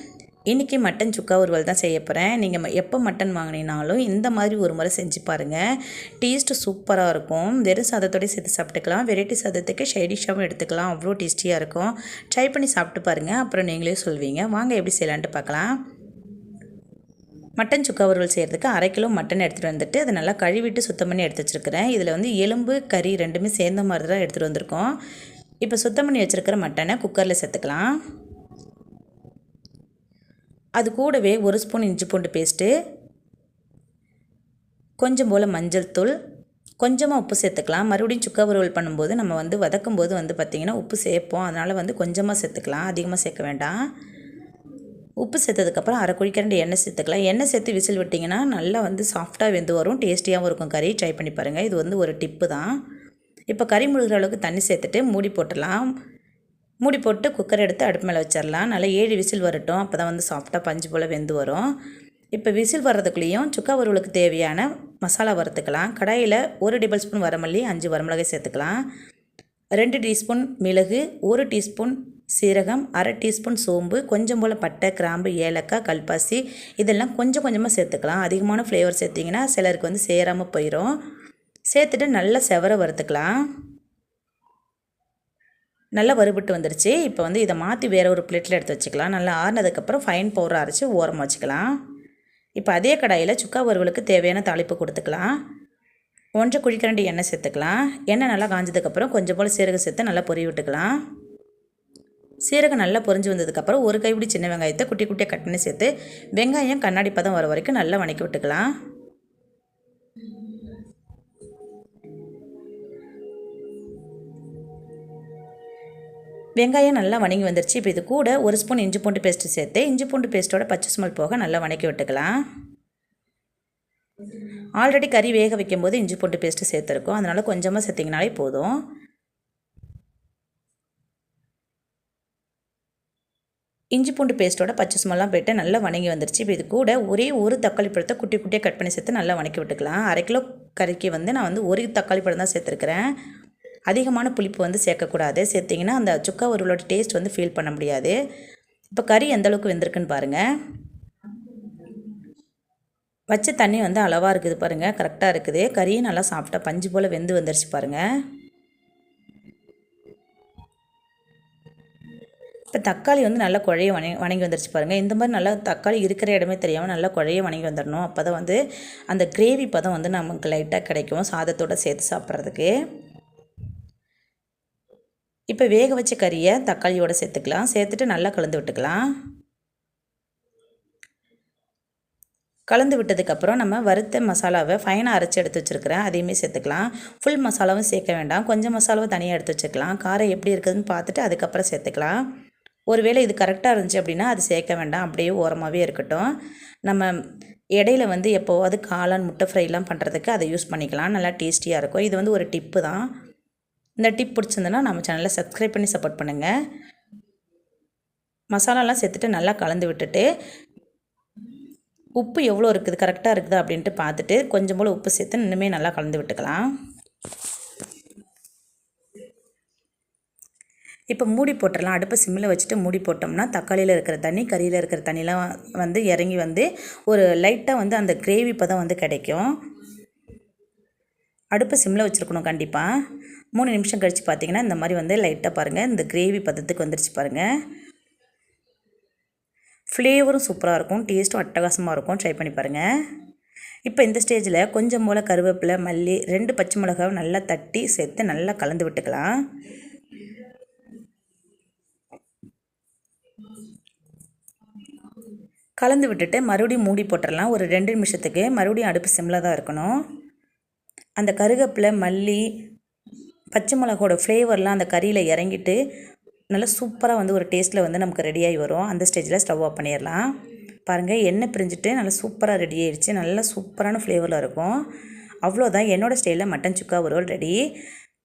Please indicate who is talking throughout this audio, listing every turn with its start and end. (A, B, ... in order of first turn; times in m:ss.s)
0:00.5-0:05.6 A
0:06.2-0:15.7 A
0:17.6-0:24.9 A
0:25.6-0:27.9 A
0:30.8-0:32.7 A
0:35.0-0:36.1 A
0:36.8-0:43.8 A
0:45.2-0:52.8 A
0:53.5-0:55.9 A
0:56.8-1:01.7 A
1:02.4-1:08.8 A
1:09.8-1:20.9 A
1:21.7-1:23.3 A
1:26.0-1:31.7 A
1:32.6-1:35.3 A
1:36.4-1:40.9 A
1:42.5-1:48.6 A
1:56.6-2:02.3 A
2:04.8-2:08.8 A
2:14.0-2:23.0 A
2:23.9-2:28.2 A
2:28.9-2:30.4 A
2:33.3-2:38.0 A
2:42.7-2:48.6 A
2:49.1-2:52.7 A
2:55.5-2:59.0 A
3:02.7-3:12.2 A
3:12.9-3:16.3 A
3:16.9-3:17.2 A
3:17.8-3:23.0 A
3:24.0-3:26.5 A
3:28.5-3:30.3 A
3:32.2-3:36.7 A
3:41.1-3:49.5 A
3:51.5-3:52.9 A
3:53.6-3:57.5 A
3:59.9-4:02.8 A
4:03.8-4:09.3 A
4:15.8-4:20.0 A
4:21.2-4:22.5 A
4:23.5-4:25.8 A
4:26.5-4:30.3 A
4:30.9-4:34.8 A
4:35.4-4:37.6 A